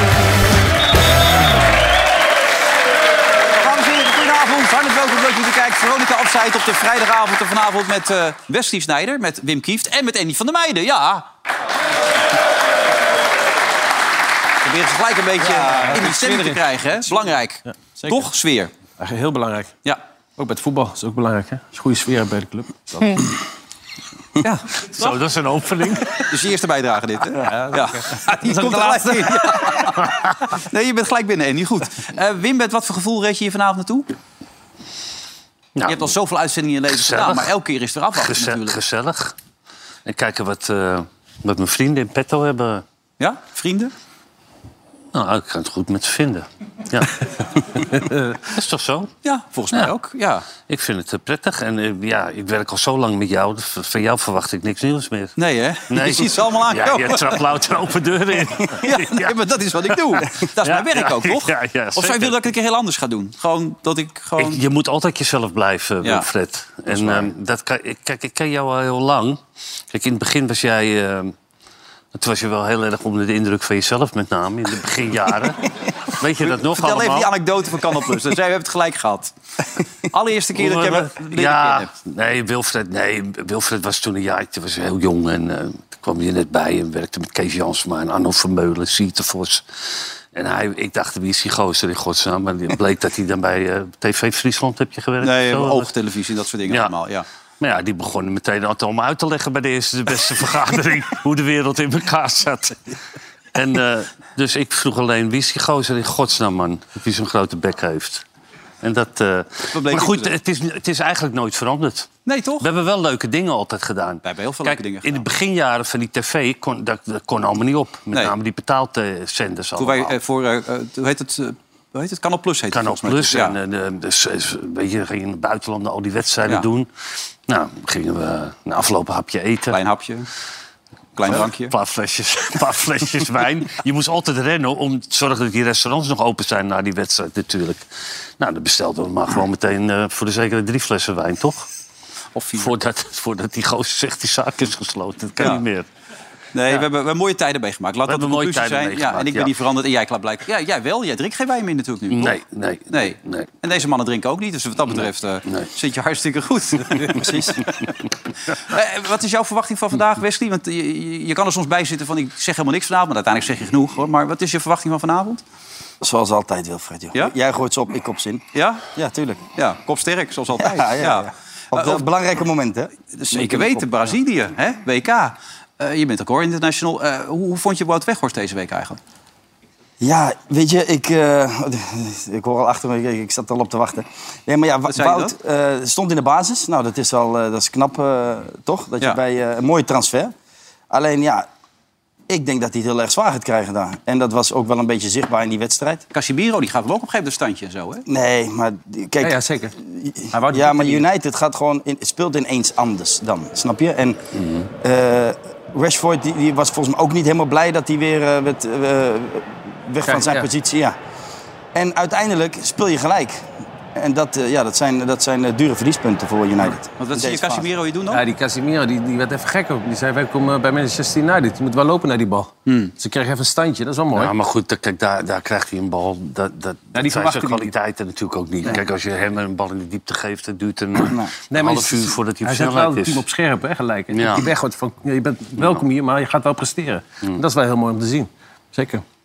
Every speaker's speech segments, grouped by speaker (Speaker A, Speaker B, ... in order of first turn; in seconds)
Speaker A: 3.5-11.2, 14.6-18.7, 24.4-25.2, 26.2-34.1, 35.9-38.8, 43.2-43.9, 49.2-50.5, 55.4-57.5, 58.7-64.6, 66.9-67.3, 76.4-79.3, 80.1-81.9, 95.2-97.2, 109.7-110.3, 112.2-112.7, 114.2-115.2, 119.8-123.5, 129.7-130.3, 131.2-131.7, 142.3-142.7, 146.5-152.3, 152.9-157.9, 158.5-165.4, 168.5-168.9, 169.6-172.1, 173.1-179.0, 184.9-185.3, 196.1-198.0, 217.0-218.2, 222.7-222.9
Speaker B: 15.7-16.6, 19.0-19.7, 20.4-23.2, 27.5-29.3, 47.9-48.4, 199.2-199.8, 200.3-201.1, 210.1-210.5, 218.1-224.3, 226.9-227.7, 231.5-239.0
Speaker C: 24.9-26.3, 30.0-30.3, 35.8-36.1, 36.9-37.5, 38.2-39.4, 40.0-42.8, 45.1-47.8, 48.4-49.1, 50.7-55.4, 55.9-59.4, 60.1-62.4, 64.4-71.3, 72.1-77.3, 80.5-89.6, 90.3-95.9, 96.7-96.9, 97.6-102.9, 103.5-108.2, 108.8-120.2, 122.7-126.9, 127.5-129.8, 131.2-137.8, 138.4-141.7, 142.6-145.9, 148.1-149.5, 152.1-153.5, 155.0-155.7, 204.3-204.7, 224.1-233.2, 234.1-234.5
Speaker D: 157.1-157.6, 166.0-169.4, 170.6-174.1, 180.0-190.3, 190.9-191.4, 192.3-196.0, 198.1-204.2, 204.8-210.9, 211.7-217.7